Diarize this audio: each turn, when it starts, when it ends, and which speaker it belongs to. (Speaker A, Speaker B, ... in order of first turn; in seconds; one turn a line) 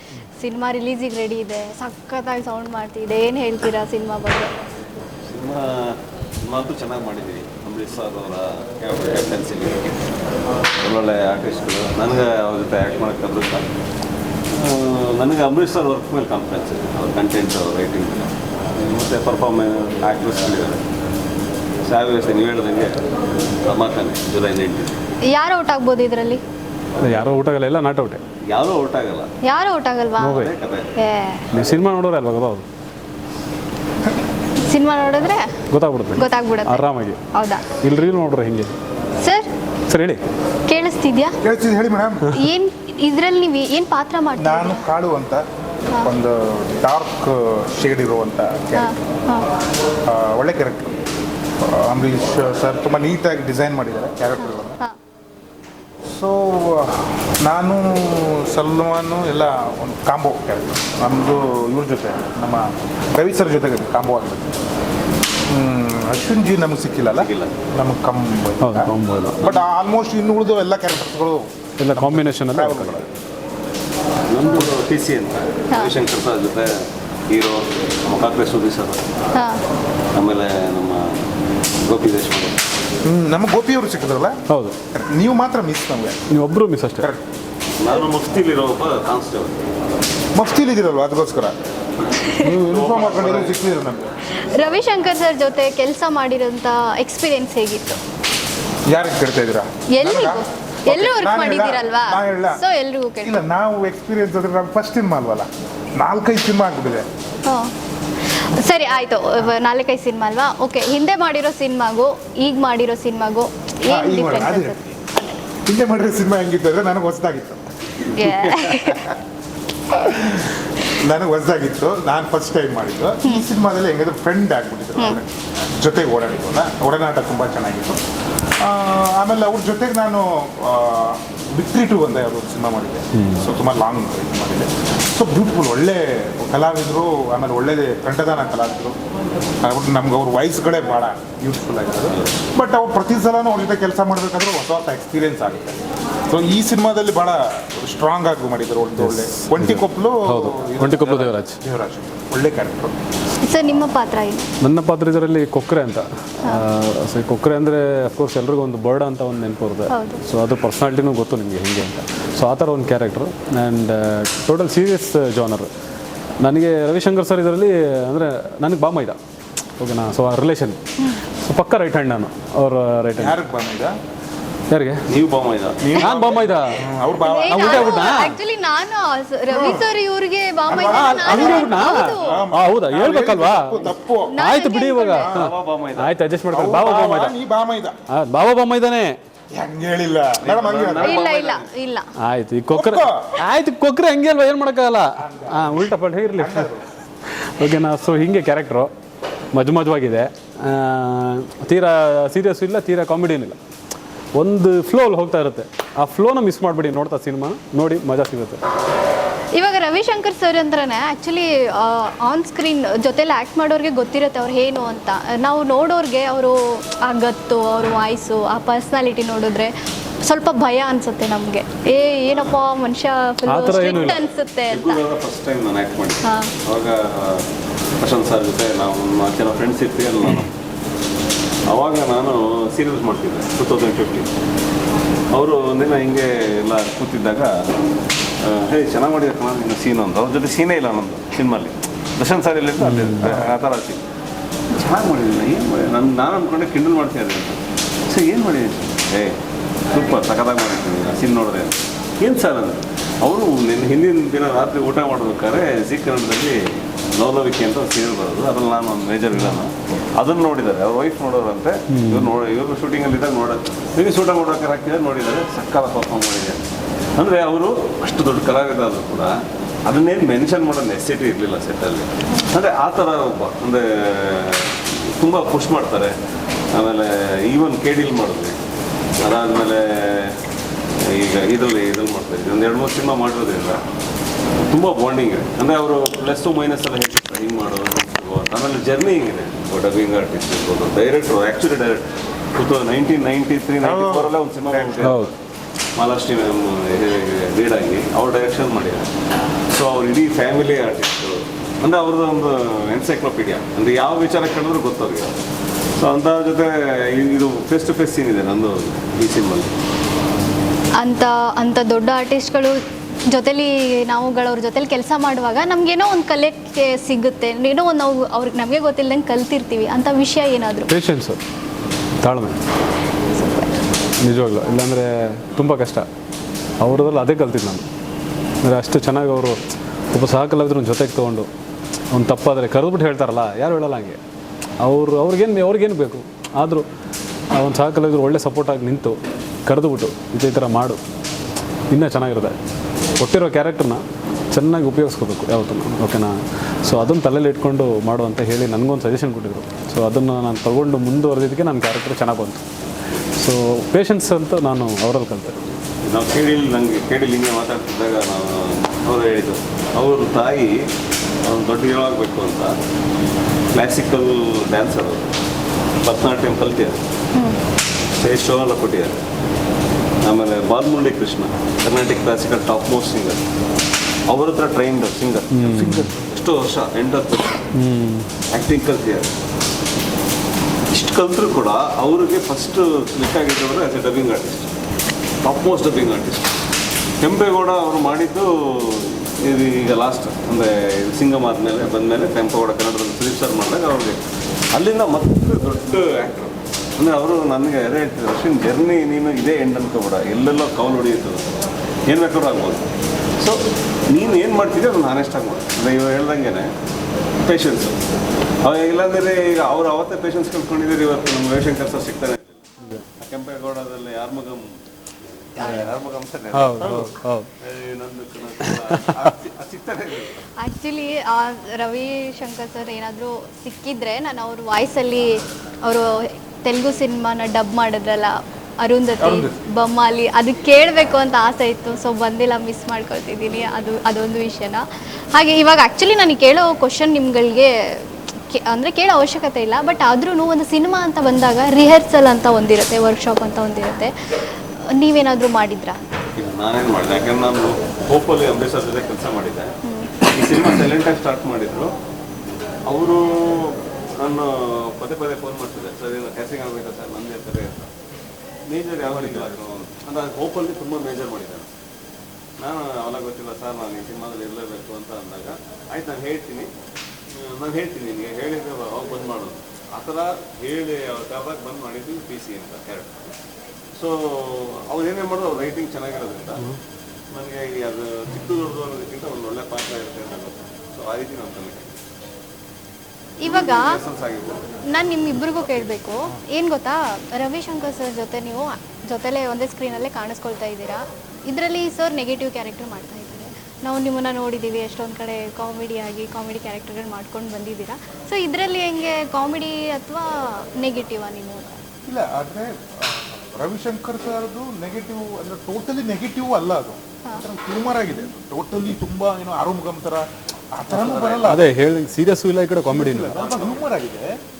Speaker A: 0.2-4.5
Speaker B: 5.3-10.1
Speaker B: 10.8-13.6
Speaker B: 14.5-20.8
Speaker B: 21.8-23.0
Speaker B: 23.6-25.0
Speaker A: 25.3-26.4
Speaker C: 27.0-28.2
Speaker B: 28.5-29.3
Speaker A: 29.4-30.4
Speaker C: 30.2-30.5
Speaker B: 30.3-30.9
Speaker A: 31.0-31.5
Speaker C: 31.7-32.6
Speaker A: 34.6-35.5
Speaker C: 35.7-37.2
Speaker A: 36.1-37.7
Speaker C: 37.8-38.7
Speaker A: 39.2-39.5
Speaker C: 39.9-40.2
Speaker A: 40.6-41.3
Speaker D: 41.4-42.3
Speaker A: 42.3-44.8
Speaker D: 44.4-45.4
Speaker D: 46.0-48.9
Speaker A: 48.8-49.5
Speaker D: 50.0-50.9
Speaker D: 51.6-54.8
Speaker A: 54.4-54.9
Speaker D: 56.1-64.5
Speaker D: 65.5-73.1
Speaker B: 67.1-67.5
Speaker C: 68.6-69.4
Speaker C: 71.8-73.0
Speaker B: 74.3-76.7
Speaker B: 77.3-79.0
Speaker A: 79.3-79.6
Speaker B: 80.1-81.0
Speaker B: 81.8-82.6
Speaker D: 83.0-84.3
Speaker C: 84.5-84.7
Speaker D: 84.9-86.2
Speaker C: 86.3-87.0
Speaker B: 87.8-89.6
Speaker D: 90.3-91.5
Speaker D: 92.4-94.1
Speaker B: 92.5-93.6
Speaker A: 94.4-98.0
Speaker D: 98.9-102.6
Speaker A: 99.9-103.4
Speaker D: 103.2-107.1
Speaker A: 107.5-107.7
Speaker A: 108.3-115.4
Speaker D: 113.9-114.9
Speaker D: 115.7-117.6
Speaker A: 118.0-119.0
Speaker B: 118.2-119.1
Speaker D: 119.9-128.0
Speaker D: 128.6-139.0
Speaker C: 133.2-133.4
Speaker D: 139.6-152.9
Speaker B: 142.1-142.4
Speaker C: 149.0-151.5
Speaker B: 150.8-151.3
Speaker A: 153.4-154.4
Speaker C: 154.6-165.7
Speaker A: 159.9-160.2
Speaker C: 166.4-169.2
Speaker C: 169.8-170.8
Speaker A: 171.0-171.2
Speaker C: 171.4-173.3
Speaker D: 173.2-173.9
Speaker C: 174.7-175.0
Speaker B: 175.1-176.5
Speaker D: 175.8-178.1
Speaker C: 176.1-176.7
Speaker A: 177.2-182.4
Speaker C: 177.5-178.1
Speaker D: 179.5-179.9
Speaker D: 180.7-184.4
Speaker C: 180.9-183.7
Speaker A: 184.3-185.3
Speaker C: 184.4-185.4
Speaker D: 185.1-185.5
Speaker B: 185.3-186.2
Speaker C: 186.0-187.3
Speaker D: 186.5-187.9
Speaker C: 188.1-189.2
Speaker D: 189.5-191.2
Speaker B: 190.4-191.7
Speaker A: 191.0-192.1
Speaker C: 192.2-196.7
Speaker D: 192.7-193.3
Speaker D: 195.2-196.9
Speaker C: 197.4-198.9
Speaker C: 199.5-203.6
Speaker C: 204.3-208.6
Speaker A: 209.5-219.7
Speaker A: 220.2-225.0
Speaker B: 221.9-222.6
Speaker C: 223.5-224.1
Speaker B: 223.6-227.4
Speaker A: 226.2-226.5
Speaker B: 228.0-230.5
Speaker B: 231.7-234.3
Speaker B: 235.3-237.5
Speaker B: 238.4-244.0
Speaker D: 243.2-243.5
Speaker B: 244.7-249.3
Speaker B: 249.9-266.6
Speaker C: 261.9-262.2
Speaker B: 267.2-269.3
Speaker B: 269.9-276.1
Speaker B: 276.7-278.5
Speaker B: 279.2-280.4
Speaker B: 281.1-283.8
Speaker B: 284.7-295.3
Speaker D: 293.8-295.2
Speaker B: 296.0-299.1
Speaker B: 299.7-305.3
Speaker B: 306.0-309.7
Speaker A: 311.0-312.8
Speaker A: 313.3-320.9
Speaker C: 320.9-321.4
Speaker C: 322.2-322.6
Speaker A: 323.3-323.7
Speaker C: 324.2-326.1
Speaker C: 326.8-327.8
Speaker C: 328.6-329.6
Speaker C: 330.1-331.5
Speaker C: 332.1-334.2
Speaker C: 334.8-336.9
Speaker C: 337.5-341.0
Speaker C: 341.9-342.6
Speaker C: 343.2-352.6
Speaker C: 353.4-355.7
Speaker B: 356.0-360.7
Speaker B: 361.4-362.8
Speaker B: 363.7-365.3
Speaker B: 366.0-367.0
Speaker B: 368.2-369.2
Speaker B: 370.2-373.4
Speaker B: 374.3-375.7
Speaker C: 375.5-376.0
Speaker D: 375.6-376.2
Speaker B: 376.2-377.6
Speaker C: 377.8-378.3
Speaker B: 378.5-379.3
Speaker B: 380.9-384.7
Speaker B: 385.4-386.5
Speaker B: 387.2-394.2
Speaker B: 394.7-401.5
Speaker B: 402.1-402.9
Speaker B: 403.4-406.7
Speaker B: 407.4-408.0
Speaker B: 408.6-412.6
Speaker B: 413.2-414.7
Speaker B: 415.5-416.9
Speaker A: 415.6-415.9
Speaker C: 416.5-417.5
Speaker D: 416.8-417.1
Speaker B: 417.6-420.4
Speaker A: 420.6-446.1
Speaker D: 429.2-429.6
Speaker B: 446.4-449.7
Speaker A: 449.8-450.1
Speaker B: 450.3-451.9
Speaker B: 452.9-457.9
Speaker B: 458.7-461.7
Speaker B: 462.6-466.7
Speaker B: 467.3-473.3
Speaker B: 473.9-476.7
Speaker B: 477.3-482.0
Speaker A: 483.4-484.0
Speaker B: 483.4-484.6
Speaker A: 484.9-501.8
Speaker D: 502.1-511.7
Speaker B: 510.9-511.8
Speaker C: 511.5-513.3
Speaker D: 512.8-514.3
Speaker B: 513.3-513.9